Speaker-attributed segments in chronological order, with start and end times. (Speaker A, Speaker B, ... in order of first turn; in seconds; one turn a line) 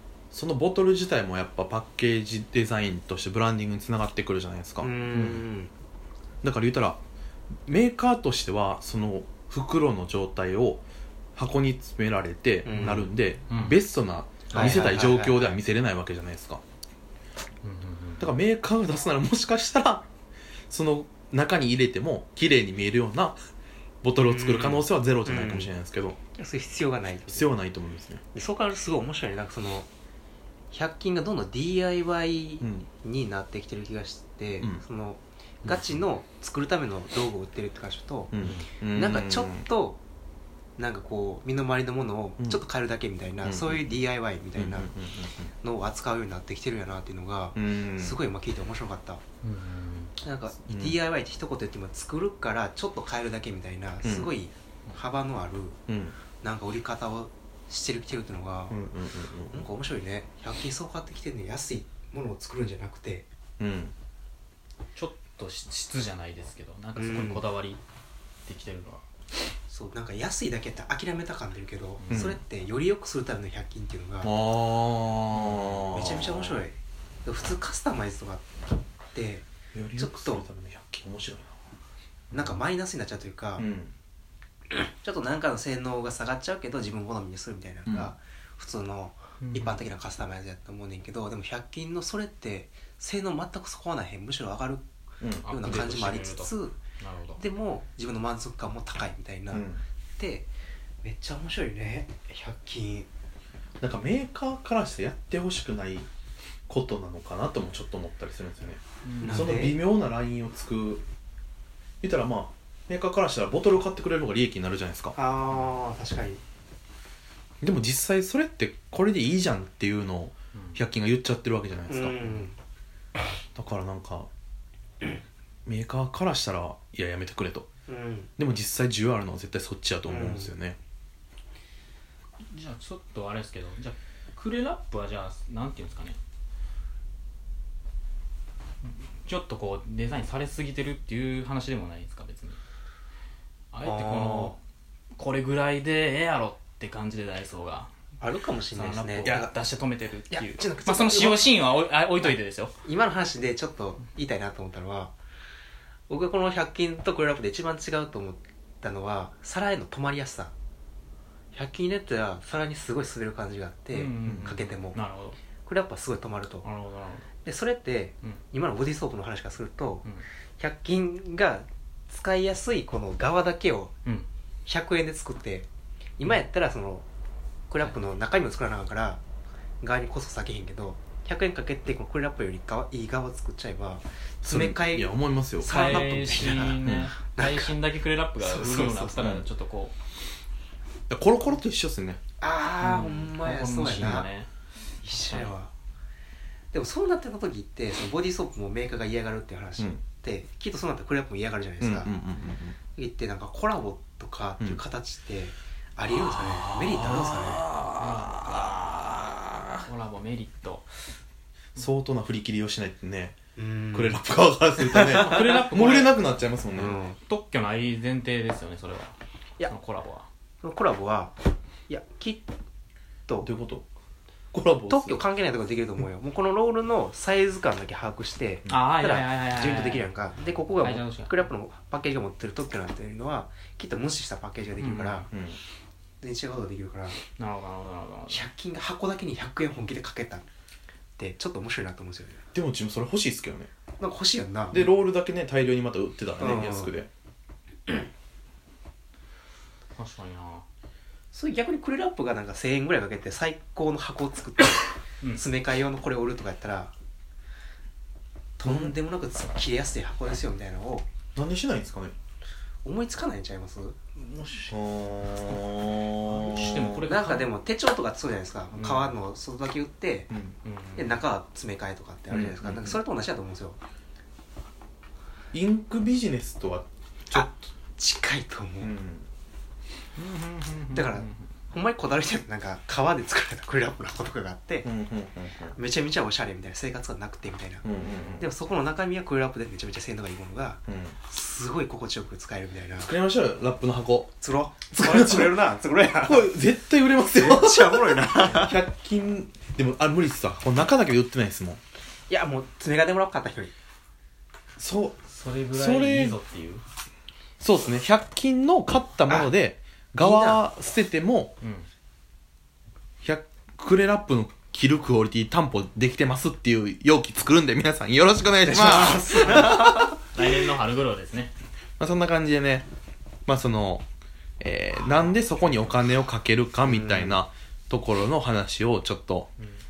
Speaker A: 0.3-5.4
Speaker B: 4.8-5.7
Speaker A: 6.4-7.0
Speaker A: 7.7-10.8
Speaker A: 11.4-16.6
Speaker B: 12.7-13.1
Speaker C: 13.5-13.8
Speaker B: 14.5-15.6
Speaker C: 17.6-18.3
Speaker A: 18.2-20.1
Speaker A: 20.7-23.4
Speaker A: 24.0-26.2
Speaker B: 24.1-25.7
Speaker B: 26.4-27.5
Speaker A: 27.3-28.2
Speaker B: 28.3-29.9
Speaker B: 30.7-38.3
Speaker A: 32.6-32.9
Speaker A: 38.3-39.6
Speaker B: 38.9-40.0
Speaker B: 40.8-44.9
Speaker A: 43.4-43.9
Speaker A: 44.6-45.5
Speaker B: 45.6-49.2
Speaker A: 47.5-48.2
Speaker C: 49.4-50.1
Speaker B: 50.2-55.8
Speaker A: 50.7-51.0
Speaker A: 54.0-54.3
Speaker A: 55.9-56.2
Speaker B: 56.4-58.8
Speaker A: 58.7-59.6
Speaker B: 59.5-63.3
Speaker A: 63.6-63.9
Speaker C: 65.0-67.8
Speaker B: 67.0-67.4
Speaker C: 68.5-69.0
Speaker B: 69.7-74.4
Speaker C: 72.0-72.3
Speaker A: 72.1-72.4
Speaker A: 74.2-76.6
Speaker C: 75.3-75.8
Speaker B: 75.9-78.5
Speaker B: 79.1-79.5
Speaker A: 79.7-81.5
Speaker B: 80.0-80.4
Speaker B: 82.3-83.7
Speaker A: 83.6-83.9
Speaker B: 84.7-94.8
Speaker A: 87.9-88.1
Speaker C: 89.4-89.8
Speaker A: 95.2-95.5
Speaker C: 95.4-97.4
Speaker B: 95.5-96.8
Speaker B: 97.4-99.7
Speaker A: 99.5-99.8
Speaker B: 100.2-100.5
Speaker B: 101.0-103.1
Speaker A: 103.8-106.1
Speaker A: 106.7-111.0
Speaker C: 109.0-109.6
Speaker B: 109.2-109.8
Speaker A: 112.0-115.2
Speaker B: 115.2-116.4
Speaker C: 115.5-115.8
Speaker A: 117.6-122.2
Speaker C: 120.5-120.8
Speaker B: 121.9-122.6
Speaker A: 123.5-124.3
Speaker A: 125.7-127.7
Speaker B: 127.9-128.3
Speaker A: 128.4-130.8
Speaker B: 130.1-130.5
Speaker C: 132.4-136.2
Speaker C: 139.2-142.6
Speaker C: 143.7-144.6
Speaker B: 143.8-144.6
Speaker C: 145.1-147.9
Speaker B: 148.2-149.5
Speaker C: 148.7-152.8
Speaker B: 150.3-151.5
Speaker B: 152.8-155.1
Speaker B: 156.1-160.5
Speaker B: 161.5-165.0
Speaker C: 163.9-165.4
Speaker A: 164.2-164.5
Speaker B: 165.6-166.7
Speaker C: 166.6-167.3
Speaker B: 167.4-170.1
Speaker B: 170.6-173.9
Speaker B: 174.7-175.7
Speaker B: 176.2-177.1
Speaker B: 177.7-179.2
Speaker B: 179.8-187.8
Speaker A: 184.4-187.1
Speaker C: 185.6-189.9
Speaker B: 188.4-189.2
Speaker A: 189.2-189.4
Speaker A: 191.1-192.2
Speaker B: 192.4-194.3
Speaker C: 192.8-194.5
Speaker B: 195.0-195.7
Speaker C: 195.2-195.5
Speaker B: 196.7-202.2
Speaker A: 201.8-202.8
Speaker B: 202.9-207.7
Speaker A: 206.6-209.8
Speaker C: 207.9-209.0
Speaker C: 209.8-211.1
Speaker A: 211.8-213.4
Speaker B: 213.6-214.2
Speaker A: 213.9-217.0
Speaker B: 214.8-215.6
Speaker C: 215.0-216.2
Speaker B: 216.7-217.2
Speaker C: 217.2-220.3
Speaker B: 220.6-221.3
Speaker B: 221.9-222.5
Speaker A: 223.4-223.9
Speaker A: 224.5-225.2
Speaker B: 224.9-235.3
Speaker A: 228.7-229.0
Speaker C: 228.7-230.1
Speaker C: 230.8-231.4
Speaker C: 234.8-235.3
Speaker A: 235.3-235.6
Speaker B: 236.2-237.2
Speaker C: 237.4-238.5
Speaker B: 238.3-240.4
Speaker B: 241.2-242.4
Speaker A: 242.5-243.7
Speaker B: 244.0-244.8
Speaker A: 244.7-247.1
Speaker B: 246.4-246.9
Speaker C: 249.9-250.6
Speaker B: 251.3-256.9
Speaker B: 258.6-261.1
Speaker A: 258.6-258.9
Speaker A: 261.4-262.1
Speaker B: 262.9-264.7
Speaker A: 264.7-267.0
Speaker C: 266.2-267.5
Speaker B: 267.0-270.3
Speaker A: 270.3-270.6
Speaker C: 270.6-271.2
Speaker B: 271.0-273.8
Speaker A: 272.3-273.0
Speaker A: 275.5-277.6
Speaker B: 277.3-278.9
Speaker A: 278.8-279.3
Speaker C: 280.2-281.3
Speaker B: 280.9-284.9
Speaker A: 284.8-285.8
Speaker B: 285.8-287.9
Speaker A: 287.8-288.5
Speaker B: 288.4-293.1
Speaker A: 290.9-291.2
Speaker A: 293.0-294.3
Speaker B: 294.4-296.6
Speaker A: 294.9-295.6
Speaker A: 296.2-301.8
Speaker B: 297.3-298.8
Speaker B: 302.3-303.7
Speaker A: 304.8-306.4
Speaker C: 305.3-306.8
Speaker A: 307.6-311.5
Speaker B: 309.3-309.5
Speaker B: 310.2-310.7
Speaker C: 311.6-311.9
Speaker A: 313.2-320.2
Speaker B: 318.6-320.2
Speaker C: 320.2-321.5
Speaker A: 322.0-322.9
Speaker A: 323.5-324.1
Speaker A: 324.6-329.5
Speaker B: 326.9-327.4